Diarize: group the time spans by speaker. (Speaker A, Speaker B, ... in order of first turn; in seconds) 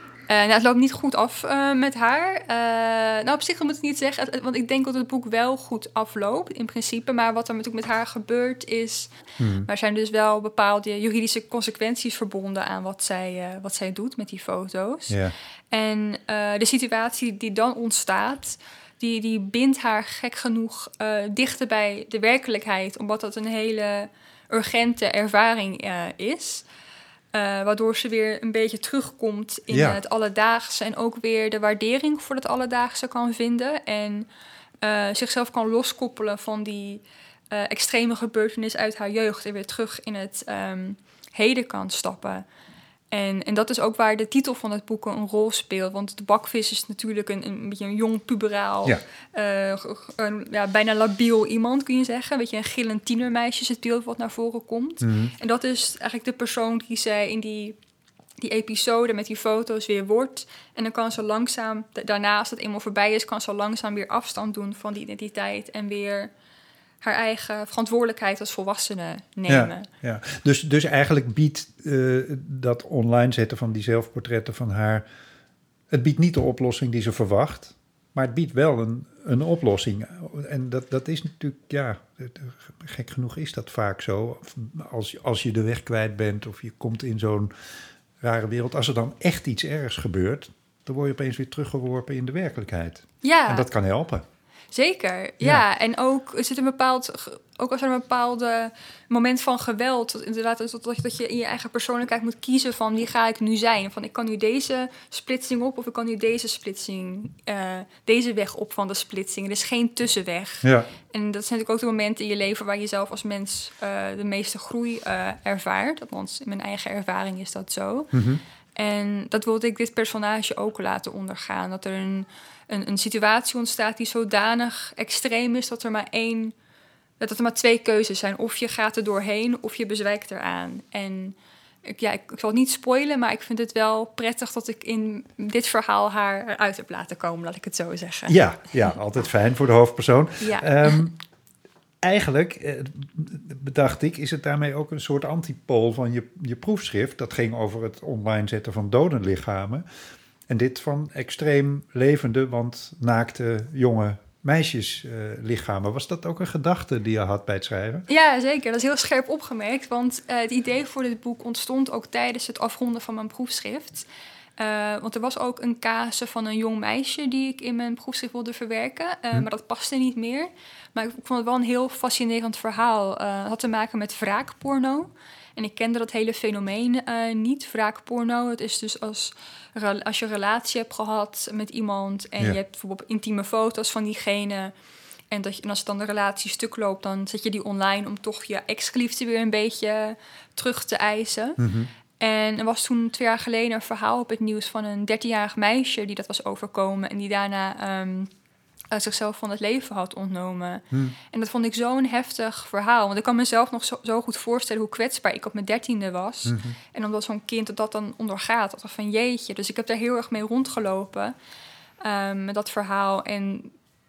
Speaker A: 0.3-15.2, 15.7-26.6, 27.3-34.3, 34.8-42.4, 43.1-57.8, 58.4-66.3, 67.0-69.9, 93.2-93.7, 94.7-118.1, 118.7-126.5, 127.2-138.9, 140.4-141.0, 158.1-164.1, 164.6-184.7, 185.3-191.6, 192.2-198.3, 198.9-211.3, 212.0-213.7
Speaker B: 9.4-9.7, 15.1-15.3, 29.7-30.0, 55.0-55.3, 69.5-75.0, 75.9-87.5, 88.2-94.2, 110.6-110.9, 118.1-118.4, 138.3-141.2, 142.0-149.8, 150.5-158.1, 191.6-191.9, 206.4-206.8